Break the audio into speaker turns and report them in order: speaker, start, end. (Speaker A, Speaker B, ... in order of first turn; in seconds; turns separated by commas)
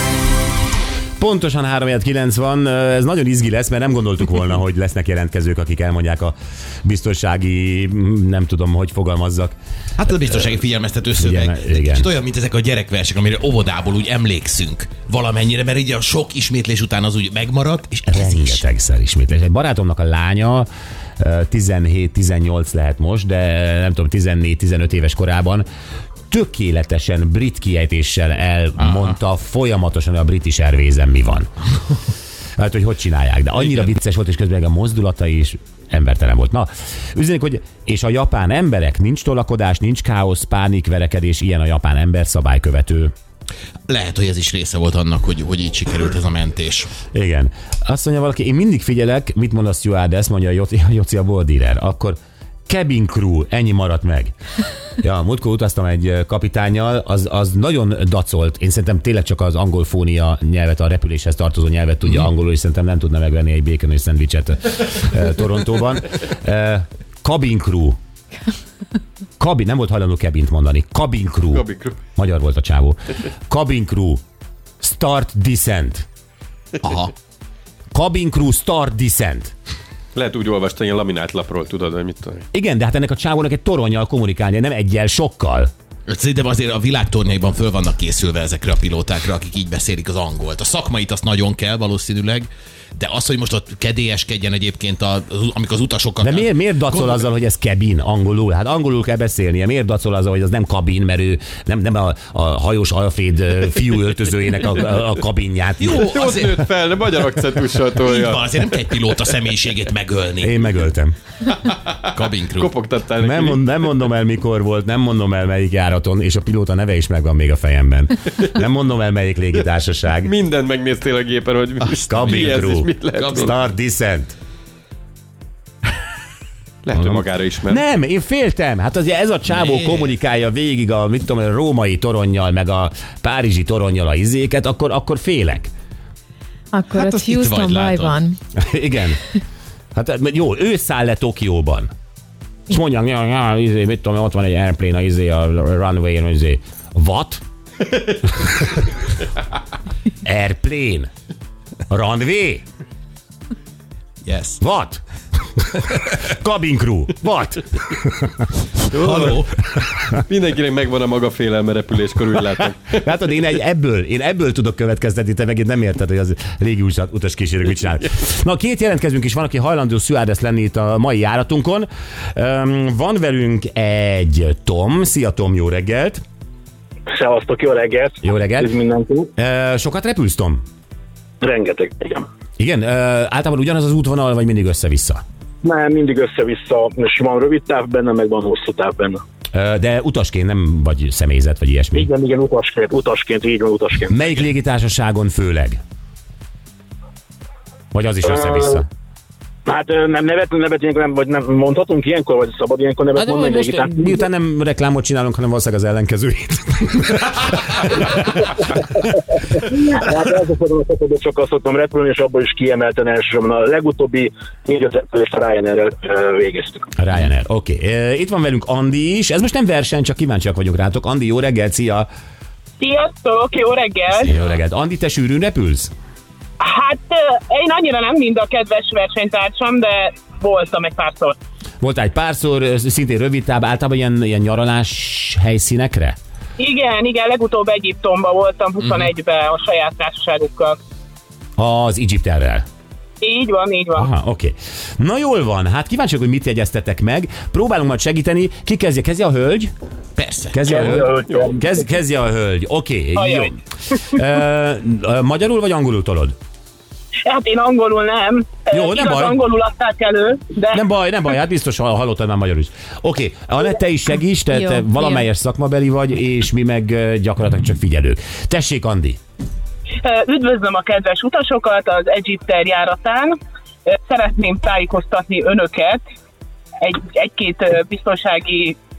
Speaker A: 1.2-9.5, Speaker B: 10.0-18.6, Speaker A: 11.2-12.1, Speaker A: 18.1-20.7, Speaker A: 21.2-25.6, Speaker A: 26.3-31.5, Speaker B: 28.8-29.1, Speaker A: 32.6-43.1, Speaker B: 33.6-33.9, Speaker B: 43.9-46.9, Speaker A: 47.1-54.3, Speaker A: 55.0-68.0, Speaker A: 69.4-71.6, Speaker C: 71.5-72.0, Speaker A: 72.2-74.2, Speaker A: 74.8-76.0, Speaker B: 76.8-77.1, Speaker A: 77.9-79.5, Speaker C: 80.1-82.4, Speaker A: 82.5-85.7, Speaker B: 86.1-97.2, Speaker A: 96.2-106.1, Speaker B: 105.8-106.5, Speaker C: 106.0-108.5, Speaker B: 107.9-110.5, Speaker A: 110.4-111.2, Speaker B: 112.1-112.7, Speaker C: 112.5-113.6, Speaker A: 113.2-120.3, Speaker C: 120.2-123.5, Speaker A: 122.1-124.3, Speaker B: 122.2-122.5, Speaker B: 123.1-123.5, Speaker C: 126.8-127.8, Speaker A: 126.9-135.7, Speaker B: 129.5-130.1, Speaker D: 136.7-138.4, Speaker B: 136.9-138.2, Speaker A: 138.5-139.2, Speaker A: 139.9-141.9, Speaker A: 142.7-147.4, Speaker A: 150.2-151.1, Speaker A: 151.9-152.6, Speaker B: 154.2-154.6, Speaker A: 154.6-155.0, Speaker A: 155.6-158.5, Speaker C: 158.9-159.5, Speaker B: 158.9-159.5, Speaker C: 160.1-163.0, Speaker A: 163.0-176.2, Speaker E: 177.1-179.3, Speaker A: 178.2-178.7, Speaker A: 179.4-180.6, Speaker E: 181.4-182.2, Speaker A: 182.6-185.2, Speaker E: 185.6-189.2, Speaker A: 189.5-192.1, Speaker E: 191.9-194.2, Speaker A: 194.1-195.8, Speaker A: 197.9-198.9, Speaker E: 198.3-198.8, Speaker E: 199.7-204.2, Speaker A: 203.2-208.5, Speaker E: 209.6-216.9, Speaker A: 217.0-222.1, Speaker F: 222.8-224.3, Speaker A: 224.2-225.9, Speaker F: 226.6-231.4, Speaker A: 231.8-236.2, Speaker F: 236.6-240.8, Speaker A: 241.6-242.6, Speaker F: 243.2-244.1, Speaker A: 243.9-249.7, Speaker B: 250.2-250.6, Speaker A: 250.5-256.3, Speaker E: 250.7-251.8, Speaker F: 253.2-253.5, Speaker F: 257.2-260.8, Speaker A: 258.7-259.4, Speaker A: 260.7-269.2, Speaker D: 264.5-265.2, Speaker F: 270.0-273.3, Speaker F: 273.9-276.0, Speaker F: 276.8-278.8